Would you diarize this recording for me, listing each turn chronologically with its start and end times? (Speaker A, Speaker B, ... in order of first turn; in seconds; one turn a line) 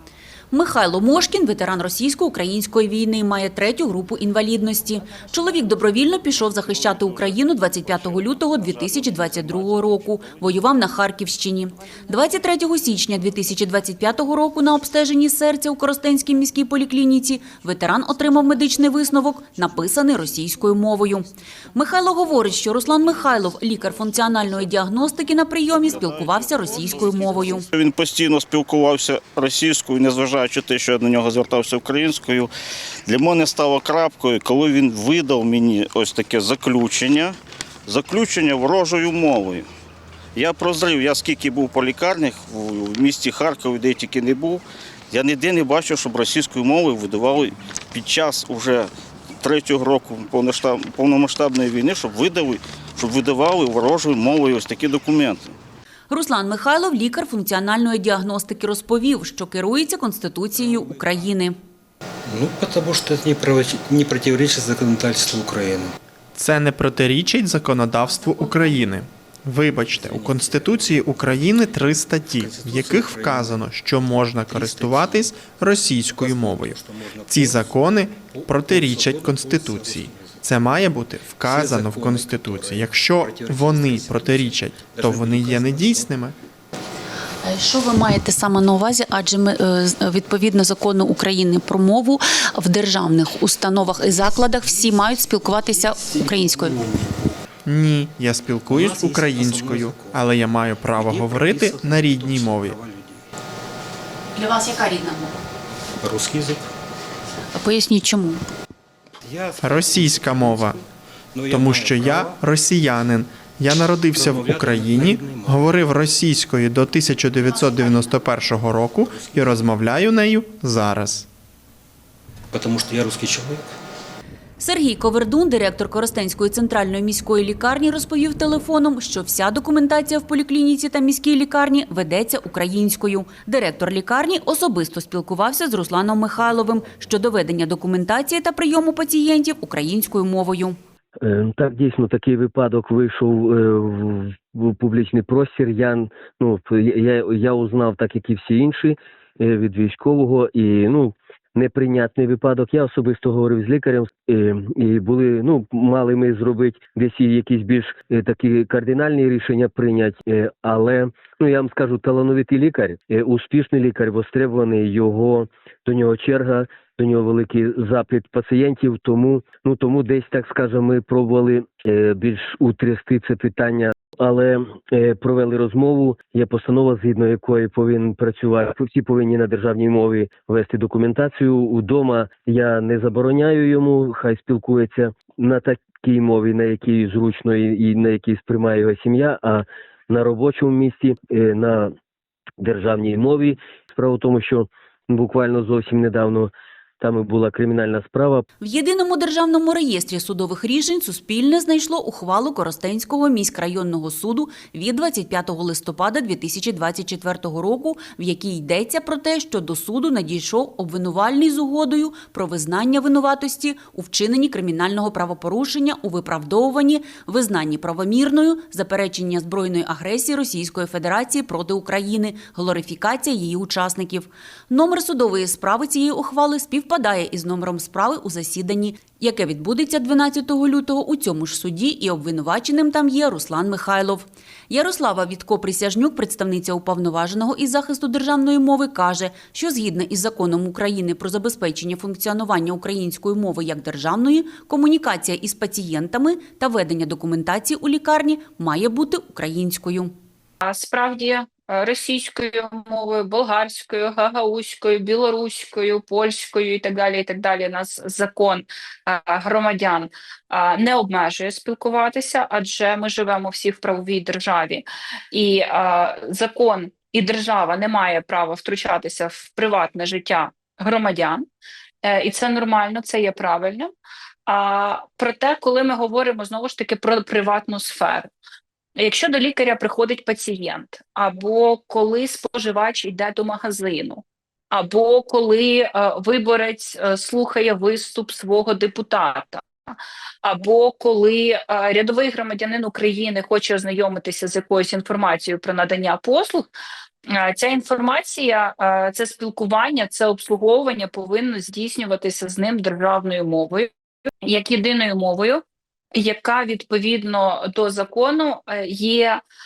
Speaker A: 0.5-27.6
Speaker B: 25.8-32.5
Speaker B: 33.1-39.7
Speaker B: 40.3-48.9
Speaker B: 49.4-55.5
Speaker A: 56.1-61.5
Speaker C: 60.5-61.2
Speaker C: 62.3-65.9
Speaker D: 66.3-86.3
Speaker C: 69.9-71.5
Speaker C: 72.3-73.7
Speaker C: 74.4-75.3
Speaker C: 76.0-77.8
Speaker C: 78.3-80.8
Speaker C: 81.4-86.1
Speaker A: 87.4-96.8
Speaker C: 93.9-97.3
Speaker D: 97.6-102.8
Speaker C: 98.7-100.2
Speaker C: 100.9-103.2
Speaker A: 104.3-105.4
Speaker C: 106.0-106.7
Speaker A: 107.5-108.4
Speaker C: 109.2-110.8
Speaker D: 109.6-110.8
Speaker C: 111.3-112.4
Speaker D: 111.5-121.3
Speaker C: 114.1-115.7
Speaker C: 119.0-119.7
Speaker C: 122.5-123.7
Speaker A: 124.6-140.8
Speaker E: 141.2-191.9
Speaker E: 192.6-198.4
Speaker A: 198.6-250.1
Speaker F: 250.6-271.5
Speaker F: 272.0-273.9
Speaker F: 274.5-278.3
Speaker F: 279.0-289.9
Speaker F: 290.4-296.7
Speaker F: 297.3-303.9
Speaker F: 304.4-305.6
Speaker F: 306.1-309.4